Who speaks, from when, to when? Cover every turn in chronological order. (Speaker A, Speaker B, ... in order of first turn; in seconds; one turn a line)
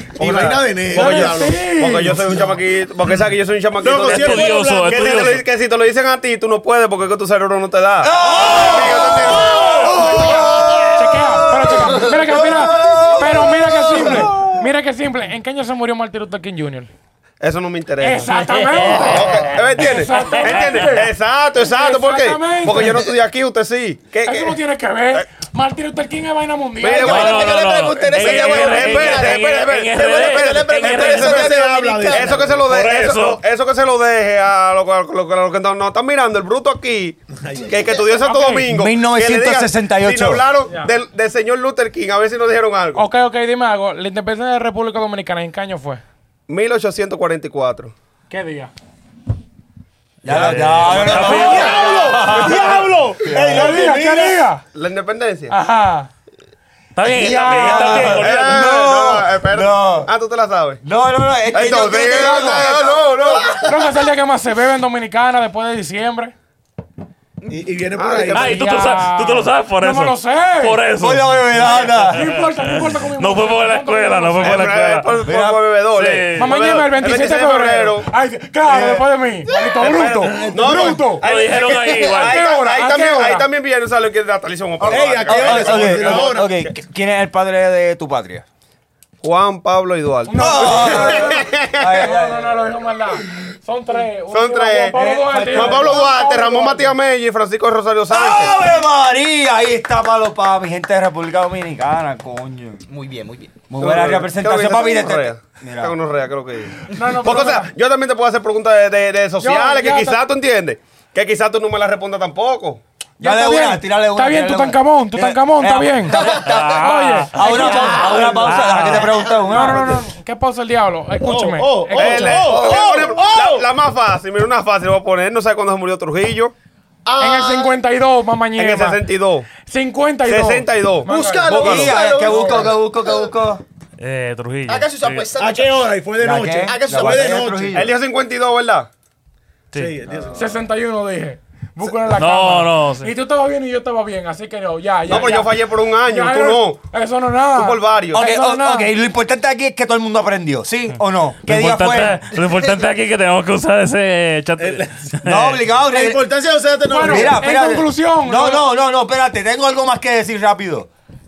Speaker A: 0.1-1.7
Speaker B: 0.2-10.9
Speaker C: 0.9-2.4
Speaker A: 3.8-5.3
Speaker D: 4.0-5.4
Speaker E: 8.0-14.6
Speaker A: 8.8-10.8
Speaker C: 9.9-16.9
Speaker A: 12.3-13.1
Speaker A: 13.9-14.3
Speaker B: 17.4-18.3
Speaker C: 18.0-21.1
Speaker D: 18.3-19.6
Speaker B: 18.9-24.6
Speaker C: 21.6-23.1
Speaker C: 24.2-27.4
Speaker B: 26.8-43.0
Speaker F: 26.9-32.5
Speaker D: 27.0-31.4
Speaker A: 30.9-32.8
Speaker D: 32.6-33.4
Speaker A: 37.4-38.2
Speaker C: 38.2-38.7
Speaker E: 38.7-40.5
Speaker C: 43.0-46.0
Speaker B: 46.5-47.9
Speaker C: 48.3-48.7
Speaker D: 50.2-51.9
Speaker E: 50.2-53.8
Speaker A: 50.9-54.5
Speaker C: 51.1-54.6
Speaker B: 54.7-55.5
Speaker C: 55.5-56.1
Speaker D: 57.0-58.5
Speaker C: 57.1-58.2
Speaker E: 57.2-60.1
Speaker B: 57.9-60.8
Speaker E: 60.8-63.4
Speaker B: 61.5-63.6
Speaker A: 62.0-63.3
Speaker C: 63.6-66.3
Speaker A: 67.5-68.5
Speaker B: 68.0-68.6
Speaker D: 68.3-75.3
Speaker C: 68.3-70.8
Speaker E: 71.0-72.2
Speaker C: 72.0-74.7
Speaker B: 74.4-78.1
Speaker E: 75.2-75.6
Speaker D: 75.9-76.5
Speaker C: 76.4-81.2
Speaker B: 79.8-86.4
Speaker A: 79.9-81.1
Speaker D: 81.2-82.4
Speaker C: 82.1-83.5
Speaker A: 84.8-86.5
Speaker E: 84.9-88.4
Speaker B: 89.2-92.0
Speaker C: 90.3-96.9
Speaker E: 90.3-92.6
Speaker B: 94.3-98.5
Speaker E: 94.9-96.0
Speaker E: 98.1-102.8
Speaker F: 102.9-103.6
Speaker E: 103.7-105.9
Speaker B: 103.8-112.8
Speaker C: 106.9-107.7
Speaker C: 109.4-110.2
Speaker E: 113.2-120.0
Speaker C: 113.2-118.1
Speaker D: 116.2-119.1
Speaker F: 117.4-118.9
Speaker A: 117.6-119.1
Speaker C: 119.5-122.4
Speaker A: 121.2-123.7
Speaker B: 121.9-126.5
Speaker E: 122.5-123.0
Speaker F: 127.1-127.8
Speaker C: 127.2-129.0
Speaker B: 128.6-129.5
Speaker C: 129.7-131.8
Speaker B: 130.3-131.9
Speaker F: 131.1-133.3
Speaker E: 131.5-133.6
Speaker D: 134.0-135.3
Speaker F: 134.7-136.0
Speaker A: 135.4-137.9
Speaker E: 136.2-137.9
Speaker F: 136.6-137.6
Speaker B: 137.7-138.9
Speaker A: 139.7-140.7
Speaker C: 140.3-148.9
Speaker D: 142.1-143.1
Speaker B: 145.1-146.8
Speaker B: 147.5-148.2
Speaker E: 148.1-152.2
Speaker D: 151.4-155.6
Speaker A: 154.6-155.1
Speaker E: 155.2-156.2
Speaker A: 155.9-157.5
Speaker C: 156.9-158.6
Speaker E: 157.0-160.9